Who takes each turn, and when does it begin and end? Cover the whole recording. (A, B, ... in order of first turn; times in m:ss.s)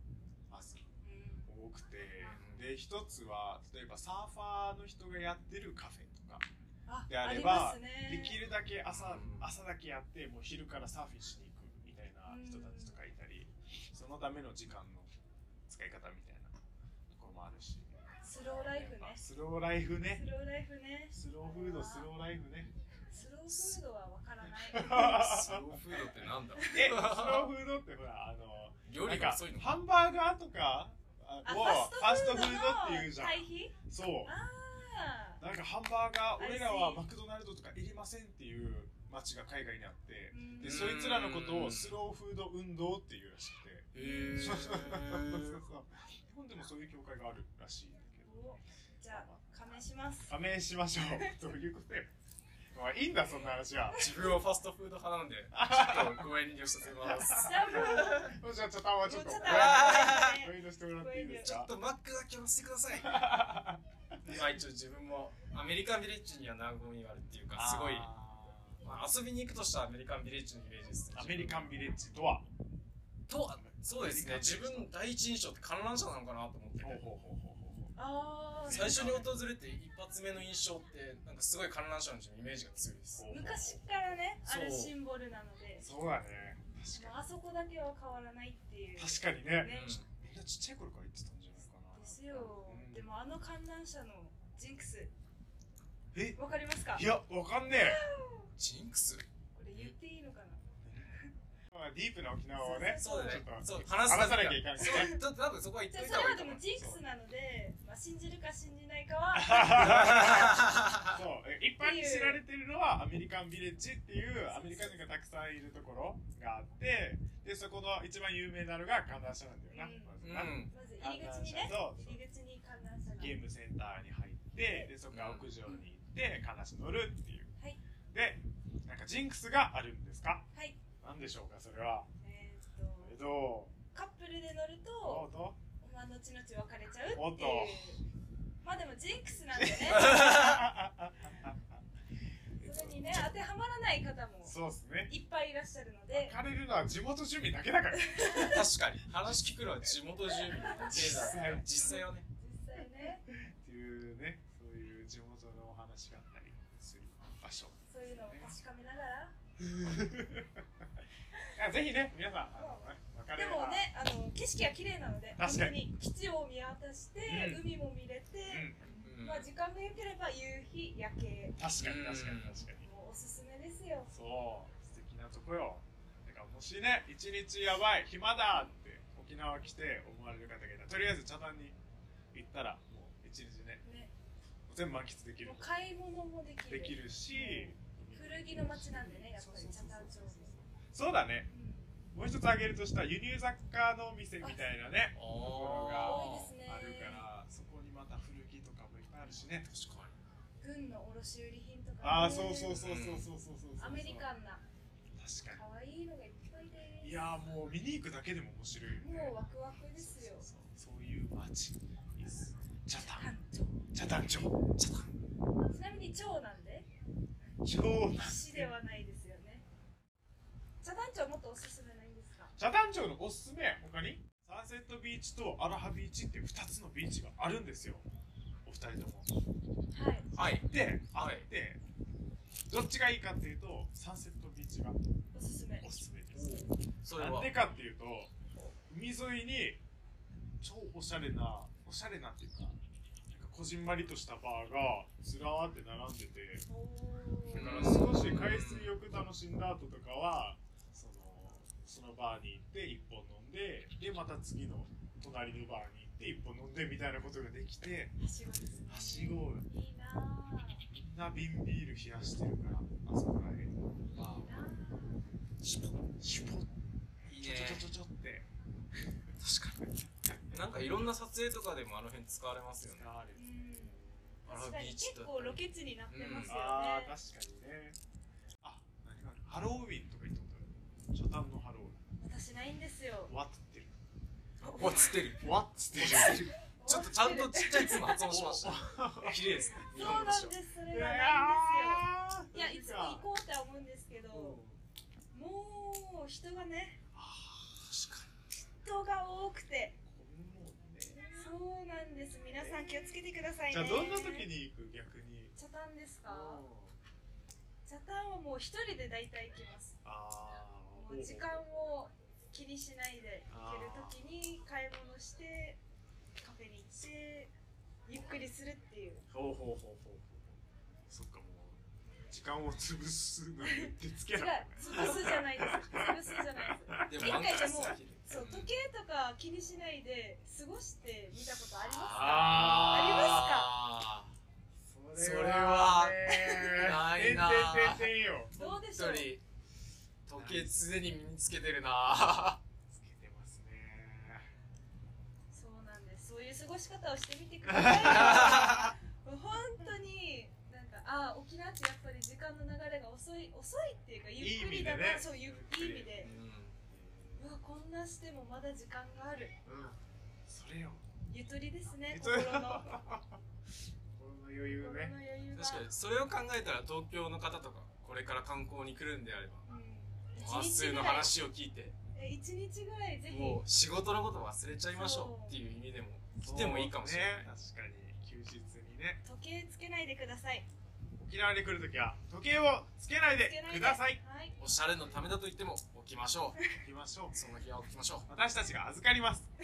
0:00.5-0:00.8 A
0:01.0-0:01.5 B
0:01.5-0:06.5 A
0:02.2-0:02.7 C
0:06.9-0:08.4 B
0:07.1-0:15.1 A
0:08.9-0:09.5 C
0:12.3-0:13.0 B
0:15.7-0:16.6 A
0:17.1-0:17.9 A
0:18.2-0:19.2 B
0:18.6-0:20.2 A
0:20.1-0:22.1 B
0:21.1-0:22.7 A
0:23.1-0:25.5 B
0:23.5-0:23.8 A
0:24.7-0:25.8 A
0:25.0-0:27.5 C
0:26.6-0:26.9 B
0:26.7-0:34.3 A
0:28.9-0:29.7 C
0:31.4-0:35.4 B
0:35.4-0:48.3 A
0:36.4-0:37.1 B
0:40.3-0:40.9 B
0:40.6-0:42.0 C
0:43.9-0:45.6 C
0:44.0-0:44.6 B
0:48.2-0:50.3 B
0:49.1-0:49.5 A
0:50.3-0:52.1 A
0:52.7-0:54.1 A
0:53.9-0:54.1 B
0:54.0-0:58.2 C
0:55.5-0:56.3 A
0:57.0-1:01.7 A
0:57.2-0:58.4 B
0:59.0-1:01.6 B
0:59.4-1:00.4 C
1:01.4-1:03.3 C
1:02.9-1:04.4 A
1:04.2-1:08.1 C
1:07.6-1:08.8 A
1:08.8-1:11.7 C
1:11.2-1:12.5 A
1:13.3-1:17.0 C
1:13.6-1:14.9 A
1:16.8-1:18.0 A
1:18.0-1:19.1 B
1:18.6-1:19.4 A
1:18.7-1:23.3 C
1:23.2-1:23.9 A
1:23.3-1:25.9 B
1:24.4-1:24.9 C
1:25.8-1:27.2 A
1:26.9-1:30.0 B
1:29.0-1:33.1 A
1:29.7-1:30.1 C
1:31.9-1:35.1 B
1:36.1-1:36.4 A
1:36.4-1:37.1 B
1:36.9-1:38.0 A
1:37.7-1:38.5 B
1:38.6-1:40.0 C
1:39.5-1:40.6 B
1:40.8-1:41.1 A
1:41.7-1:45.2 A
1:42.6-1:43.5 B
1:43.0-1:46.6 C
1:44.8-1:45.2 B
1:45.9-1:50.0 B
1:46.7-1:47.0 A
1:49.3-2:02.2 A
1:49.7-1:51.2 C
1:51.8-1:52.4 B
1:54.5-1:55.0 B
1:59.7-2:03.4 B
2:00.2-2:00.7 C
2:03.2-2:07.5 A
2:05.1-2:05.6 C
2:08.1-2:10.4 A
2:10.5-2:10.8 B
2:11.0-2:12.1 A
2:12.2-2:13.2 B
2:13.0-2:13.8 A
2:13.9-2:15.3 B
2:15.0-2:15.6 A
2:15.8-2:18.0 B
2:17.1-2:18.0 A
2:18.6-2:20.3 B
2:19.5-2:21.6 A
2:19.9-2:20.7 C
2:22.6-2:23.5 A
2:22.6-2:26.4 B
2:24.4-2:25.1 A
2:26.1-2:28.4 A
2:27.9-2:28.6 B
2:28.3-2:32.3 C
2:30.5-2:33.2 B
2:30.6-2:32.0 A
2:33.3-2:38.6 A
2:37.9-2:39.4 B
2:39.6-2:40.6 A
2:41.5-2:43.9 A
2:42.6-2:51.6 B
2:45.4-2:45.8 A
2:47.2-2:47.7 A
2:48.5-2:48.9 A
2:49.0-2:49.5 C
2:51.6-2:52.9 A
2:51.8-2:52.6 C
2:52.7-2:54.1 B
2:54.1-3:01.8 A
3:02.3-3:03.8 A
3:03.8-3:04.1 B
3:04.7-3:05.8 A
3:05.4-3:10.5 B
3:06.7-3:11.5 A
3:11.5-3:11.9 B
3:12.1-3:19.7 A
3:15.1-3:16.6 C
3:15.8-3:17.3 B
3:19.6-3:20.2 C
3:20.6-3:22.8 B
3:22.0-3:24.3 A
3:22.6-3:23.3 C
3:23.8-3:24.6 B
3:25.2-3:25.6 A
3:25.5-3:27.4 B
3:27.0-3:29.4 A
3:29.0-3:30.5 B
3:29.9-3:33.3 A
3:33.0-3:33.9 B
3:33.9-3:34.6 A
3:34.2-3:35.1 C
3:35.7-3:36.9 B
3:37.6-3:38.7 A
3:38.1-3:39.6 B
3:40.8-3:42.5 B
3:42.6-3:48.1 A
3:48.6-3:49.3 A
3:49.9-3:50.3 B
3:50.3-3:51.5 C
3:50.4-3:51.8 A
3:52.7-3:55.0 A
3:55.3-3:55.9 B
3:55.8-3:56.7 A
3:56.3-3:57.5 C
3:57.2-3:59.8 A
4:00.6-4:02.8 A
4:03.3-4:06.7 A
4:06.7-4:08.1 B
4:07.5-4:18.1 A
4:07.5-4:09.0 C
4:18.2-4:20.9 B
4:18.9-4:19.7 A
4:20.9-4:24.4 A
4:24.1-4:25.2 B
4:25.6-4:26.0 C
4:26.2-4:26.7 A
4:27.3-4:27.9 C
4:27.4-4:28.5 A
4:29.4-4:29.9 C
4:30.3-4:30.6 A
4:30.5-4:33.1 C
4:32.9-4:34.3 A
4:33.4-4:37.2 B
4:34.5-4:36.6 C
4:36.4-4:38.0 A
4:38.6-4:42.0 A
4:42.2-4:43.3 B
4:43.3-4:44.0 A
4:44.6-4:50.6 C
4:44.8-4:45.1 B
4:45.3-4:46.6 A
4:46.1-4:48.3 B
4:48.2-4:53.3 A
4:49.7-4:54.6 B
4:54.3-4:54.7 A
4:55.3-4:57.0 B
4:57.1-4:57.9 A
4:57.8-4:58.3 C
4:58.8-5:00.0 B
5:00.1-5:01.5 A
5:01.1-5:04.5 B
5:02.6-5:05.5 A
5:05.6-5:06.6 B
5:06.2-5:07.0 A
5:07.8-5:10.0 B
5:10.0-5:11.6 A
5:11.0-5:15.8 B
5:13.5-5:14.2 A
5:16.4-5:17.5 B
5:18.1-5:19.2 B
5:19.3-5:27.4 A
5:23.6-5:33.8 B
5:27.1-5:28.7 C
5:31.9-5:34.3 C
5:32.1-5:33.4 A
5:34.8-5:38.6 A
5:35.2-5:39.4 C
5:36.3-5:36.9 B
5:38.5-5:39.3 B
5:40.3-5:42.6 C
5:40.4-5:40.8 A
5:42.9-5:44.5 A
5:45.5-5:56.3 B
5:47.6-5:48.7 A
5:48.1-5:48.9 C
5:54.4-5:56.2 A
5:56.2-5:56.8 C
5:56.9-5:57.5 A
5:57.4-5:59.6 B
5:59.7-6:00.0 C
6:00.5-6:01.0 A
6:01.3-6:03.0 B
6:02.1-6:03.4 A
6:04.2-6:05.2 A
6:04.7-6:05.9 B
6:05.5-6:09.6 C
6:09.7-6:11.4 B
6:10.4-6:11.9 C
6:12.1-6:13.6 B
6:13.3-6:17.5 C
6:14.9-6:15.7 B
6:16.4-6:19.2 A
6:19.2-6:20.7 B
6:21.2-6:24.2 A
6:23.4-6:24.6 B
6:24.6-6:26.6 C
6:26.7-6:27.4 A
6:27.3-6:28.3 C
6:28.3-6:29.5 A